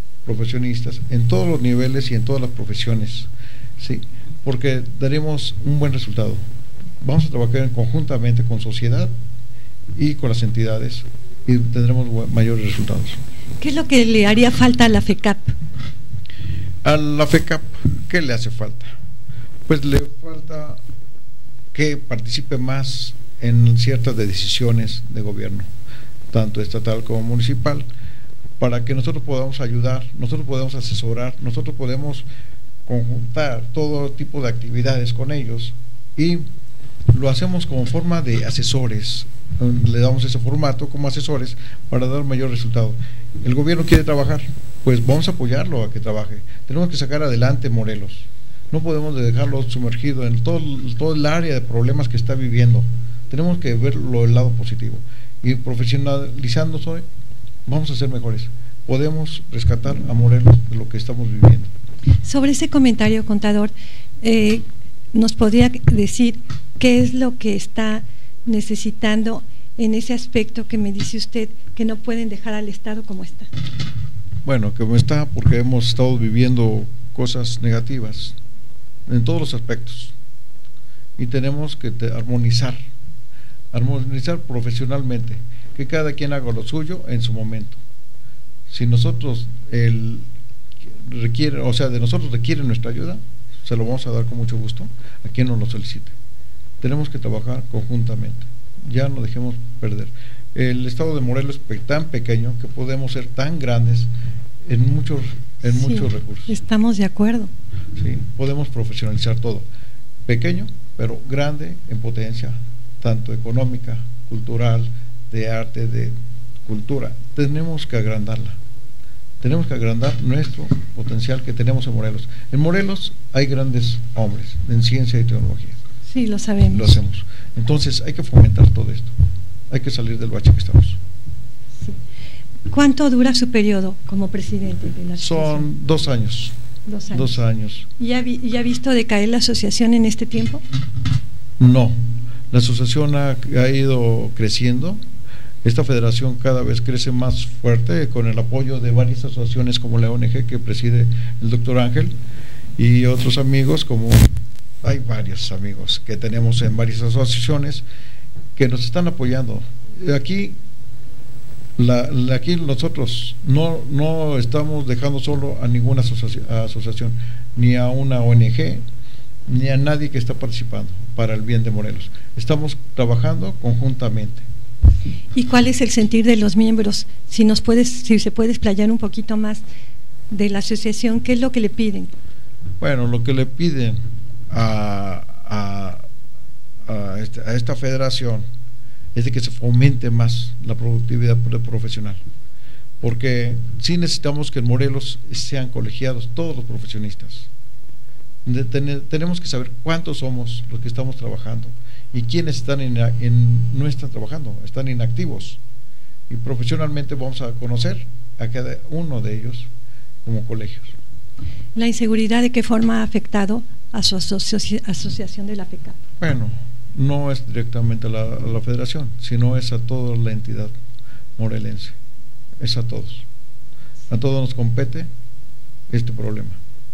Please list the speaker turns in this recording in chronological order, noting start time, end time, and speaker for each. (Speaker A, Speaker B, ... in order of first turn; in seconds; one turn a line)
Speaker A: 0.2-6.4
Speaker A: 7.0-9.1
Speaker A: 9.9-13.2
Speaker B: 13.6-15.5
Speaker A: 16.8-18.9
Speaker A: 19.7-20.8
Speaker A: 21.7-25.7
Speaker A: 26.3-27.9
Speaker A: 28.6-32.3
Speaker A: 32.9-36.4
Speaker A: 37.1-57.0
Speaker A: 57.6-61.7
Speaker B: 62.2-73.5
Speaker A: 74.4-78.3
Speaker A: 79.1-80.1
Speaker A: 81.2-82.8
Speaker A: 83.7-87.8
Speaker A: 88.7-90.3
Speaker A: 90.8-96.1
Speaker A: 96.8-104.1
Speaker A: 104.6-106.5
Speaker B: 105.6-107.5
Speaker A: 107.9-109.7
Speaker A: 110.2-118.6
Speaker A: 119.4-125.8
Speaker B: 126.1-126.9
Speaker A: 126.7-129.1
Speaker A: 129.7-131.0
Speaker B: 132.7-135.6
Speaker A: 135.2-136.6
Speaker B: 136.8-137.4
Speaker A: 137.1-137.9
Speaker B: 138.0-140.6
Speaker A: 141.6-142.0
Speaker A: 142.5-145.0
Speaker A: 145.6-152.2
Speaker A: 152.8-157.8
Speaker A: 158.6-160.6
Speaker A: 161.8-168.8
Speaker A: 169.4-174.4
Speaker B: 175.3-179.6
Speaker B: 180.3-182.1
Speaker A: 182.8-184.0
Speaker A: 184.5-186.1
Speaker A: 186.8-188.4
Speaker A: 189.1-192.2
Speaker A: 193.0-197.5
Speaker A: 198.4-205.6
Speaker A: 206.3-209.7
Speaker A: 210.2-210.9
Speaker B: 211.8-216.0
Speaker A: 216.2-220.7
Speaker A: 221.4-221.9
Speaker A: 222.6-223.2
Speaker A: 224.1-225.1
Speaker A: 225.9-226.6